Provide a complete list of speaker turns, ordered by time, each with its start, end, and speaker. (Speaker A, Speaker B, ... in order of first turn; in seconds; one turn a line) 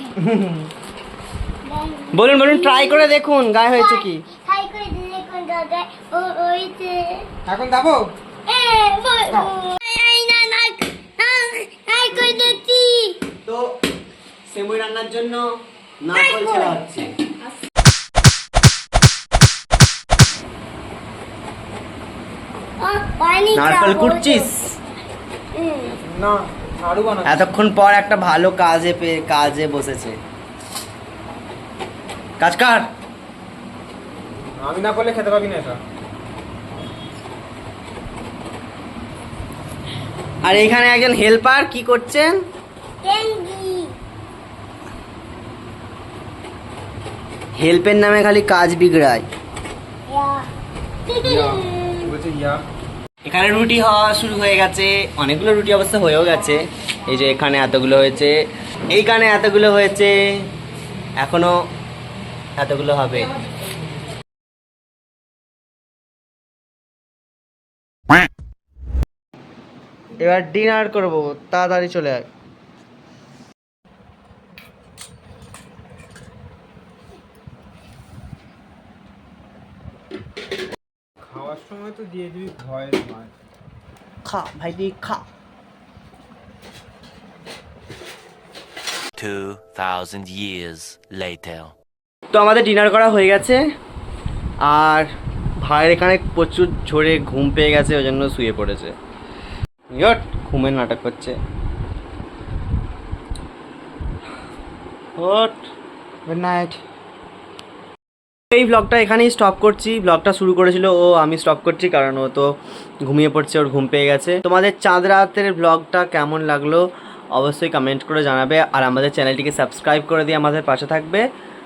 Speaker A: 0.2-0.7
Speaker B: 1.6-3.1
Speaker C: 2.1-4.2
Speaker B: 3.7-7.3
Speaker A: 7.5-8.1
Speaker B: 8.5-13.2
Speaker C: 13.4-13.7
Speaker C: 14.5-15.5
Speaker C: 16.0-17.1
Speaker B: 16.1-16.8
Speaker B: 22.8-24.5
Speaker C: 23.5-24.7
Speaker B: 25.5-26.0
Speaker A: 26.0-27.4
Speaker C: 27.3-30.1
Speaker C: 32.4-32.9
Speaker A: 34.6-35.8
Speaker C: 40.4-42.3
Speaker B: 43.0-44.0
Speaker C: 47.6-49.3
Speaker B: 50.1-50.5
Speaker B: 51.1-52.1
Speaker A: 51.2-52.6
Speaker C: 53.2-58.4
Speaker C: 58.9-60.2
Speaker C: 61.2-61.5
Speaker C: 62.6-63.4
Speaker C: 70.2-72.3
Speaker A: 81.2-83.3
Speaker C: 84.2-85.2
Speaker D: 89.2-91.7
Speaker C: 92.3-93.6
Speaker C: 94.7-95.1
Speaker C: 95.7-98.9
Speaker C: 100.0-101.3
Speaker C: 105.2-105.7
Speaker A: 106.3-106.8
Speaker C: 108.5-112.5
Speaker C: 113.1-116.8
Speaker C: 117.4-121.2